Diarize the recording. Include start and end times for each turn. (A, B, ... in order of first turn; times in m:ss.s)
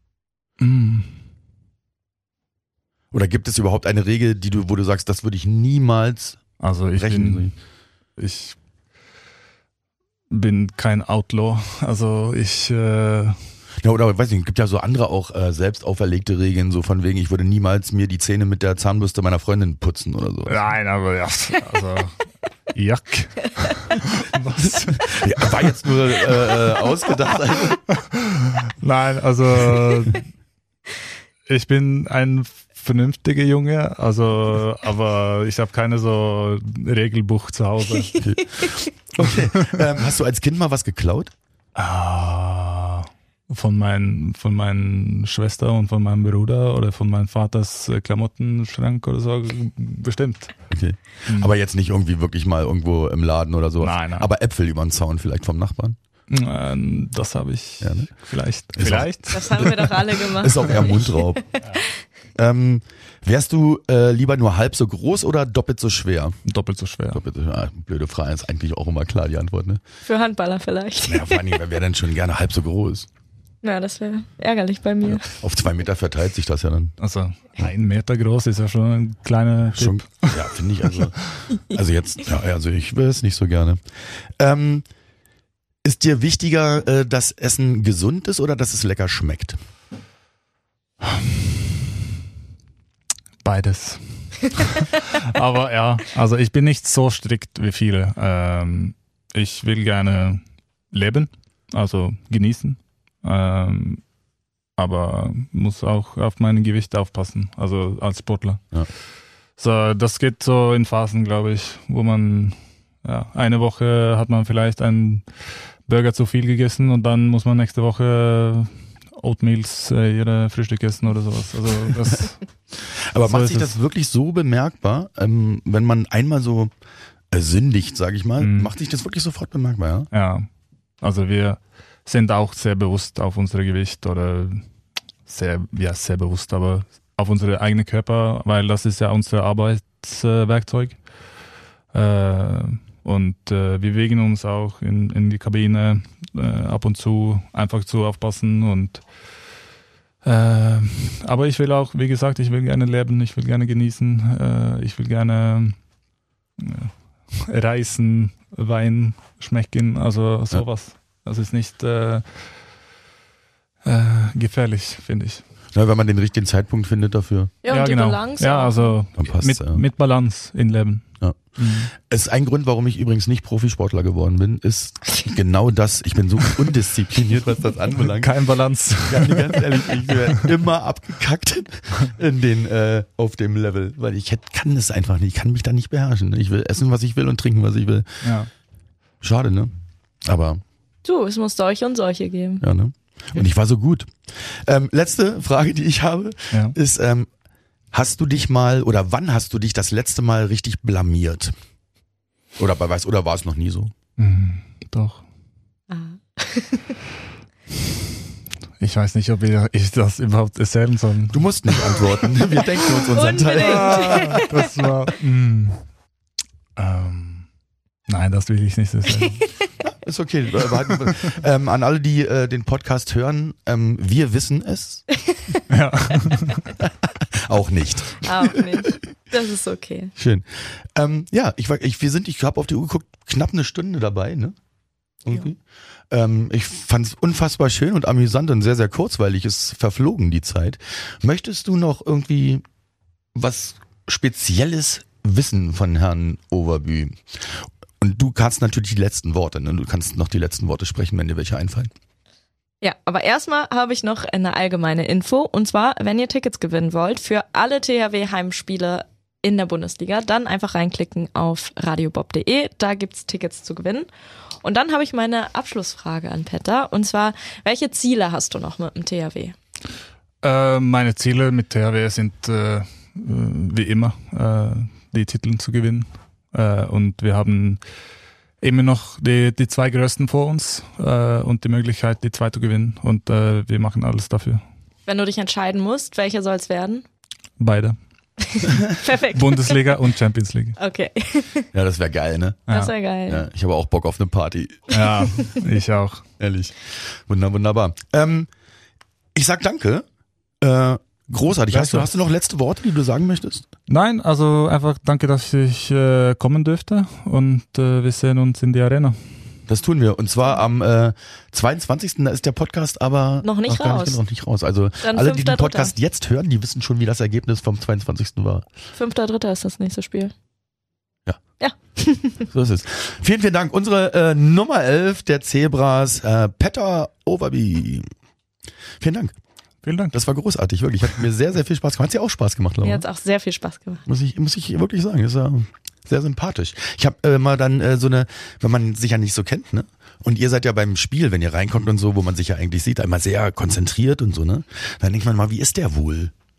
0:00.6-0:01.1 A
0:03.1-0:06.4 B
0:06.6-0:07.5 A
0:07.0-0:07.5 B
0:08.2-0:08.6 A
0:10.3-0:13.4 A
0:13.8-0:20.6 B
0:20.5-0:22.2 A
0:22.7-0:25.7 A
0:24.6-0:27.8 B
0:27.9-0:30.3 A
0:31.5-0:38.2 A
0:38.1-0:38.8 C
0:38.2-0:41.3 B
0:41.8-0:50.6 A
0:50.7-0:56.0 B
0:51.3-0:51.5 A
0:53.8-0:54.3 A
0:56.3-0:59.9 A
0:57.8-0:58.1 B
0:58.7-1:01.4 B
0:59.3-1:02.0 C
1:02.4-1:06.4 B
1:06.4-1:07.2 A
1:07.1-1:09.8 B
1:10.1-1:11.5 C
1:11.0-1:13.1 B
1:13.6-1:15.3 C
1:15.1-1:17.0 B
1:17.0-1:20.6 A
1:19.8-1:24.8 B
1:25.8-1:29.6 B
1:31.0-1:31.4 A
1:33.4-1:44.0 A
1:44.8-1:48.6 A
1:49.6-1:55.2 A
1:55.9-2:02.4 A
2:02.9-2:06.7 B
2:03.2-2:03.7 A
2:07.3-2:10.1 B
2:08.4-2:08.7 A
2:10.1-2:10.5 A
2:11.0-2:14.6 A
2:15.3-2:21.0 A
2:21.9-2:29.0 A
2:30.2-2:35.8 A
2:36.6-2:42.2 A
2:43.8-2:45.4 A
2:45.7-2:47.5 B
2:47.6-2:48.9 C
2:47.7-2:51.9 A
2:49.2-2:49.8 B
2:51.2-2:58.4 B
2:58.2-2:59.9 A
2:59.1-3:08.2 B
3:08.2-3:08.5 A
3:09.2-3:09.7 B
3:10.2-3:10.6 B
3:11.0-3:12.6 C
3:12.6-3:17.3 B
3:17.9-3:21.5 B
3:22.6-3:23.9 B
3:24.2-3:25.2 A
3:25.9-3:27.0 C
3:28.8-3:31.8 A
3:31.3-3:34.5 B
3:32.9-3:34.7 C
3:33.6-3:35.8 A
3:36.8-3:37.5 A
3:38.1-3:39.4 A
3:39.8-3:45.1 B
3:45.2-3:45.6 C
3:45.7-3:46.7 A
3:46.8-3:49.0 B
3:48.2-3:50.1 C
3:50.2-3:54.6 B
3:55.2-3:55.6 B
3:56.1-4:02.6 B
4:03.4-4:11.9 B
4:12.8-4:24.1 C
4:24.6-4:29.6 C
4:30.4-4:37.8 A
4:38.6-4:44.6 A
4:45.1-4:47.0 C
4:47.6-4:48.0 A
4:48.4-4:49.9 C
4:49.3-4:50.8 A
4:50.8-4:51.7 C
4:51.7-4:52.7 B
4:52.7-4:52.9 A
4:52.7-4:53.5 C
4:53.3-4:54.9 B
4:54.9-4:56.2 A
4:56.4-4:58.5 B
4:59.4-5:00.0 B
5:00.6-5:03.7 B
5:01.6-5:02.1 A
5:03.9-5:09.2 A
5:09.7-5:18.7 B
5:13.4-5:14.2 C
5:15.0-5:15.9 C
5:19.0-5:20.3 C
5:21.6-5:22.5 C
5:22.5-5:28.1 B
5:29.0-5:29.4 B
5:29.8-5:30.2 A
5:30.1-5:33.0 B
5:32.8-5:34.0 C
5:34.1-5:46.3 B